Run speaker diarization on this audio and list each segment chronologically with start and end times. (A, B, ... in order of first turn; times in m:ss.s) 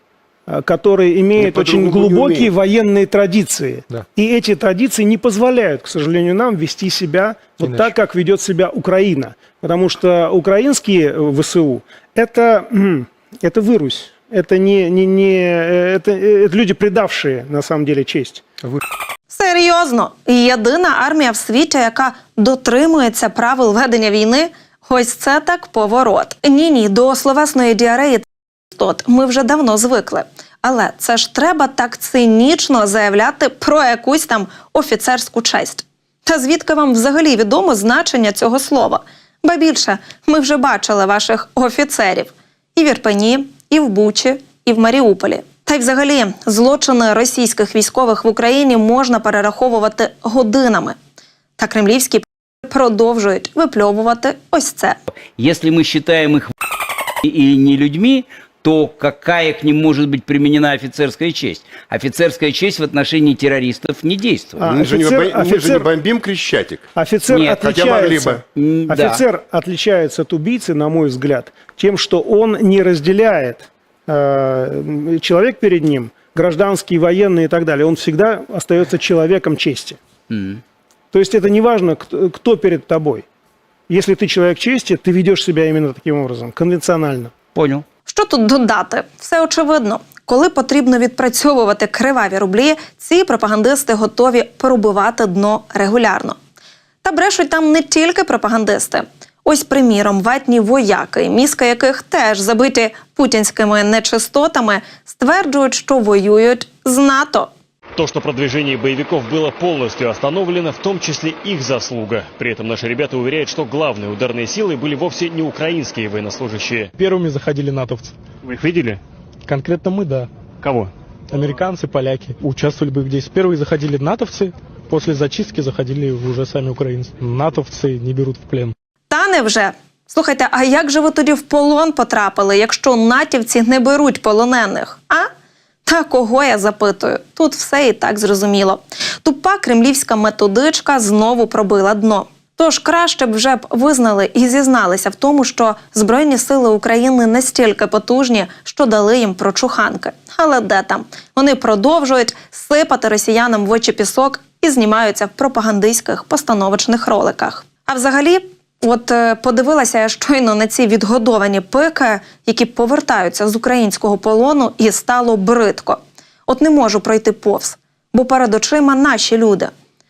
0:00.5-0:18.8 A
0:01.4-0:02.5 B
0:19.3-0:28.2 C
0:28.8-0:51.0 C
0:51.6-0:55.0 C
0:55.2-0:56.5 D
0:57.2-1:04.8 D
1:04.6-1:06.0 A
1:04.7-1:06.8 B
1:06.9-1:20.0 A
1:07.3-1:07.6 D
1:07.6-1:08.4 B
1:08.5-1:09.2 D
1:20.3-1:20.6 D
1:21.1-1:23.2 A
1:23.9-1:27.3 A
1:27.5-1:27.8 D
1:28.1-1:36.4 C
1:37.0-1:47.5 C
1:48.0-1:56.9 E
1:57.0-1:58.2 F
1:58.4-1:59.0 E
1:59.5-2:00.3 F
2:00.6-2:00.9 E
2:01.3-2:08.7 F
2:09.1-2:15.3 C
2:15.9-2:49.7 C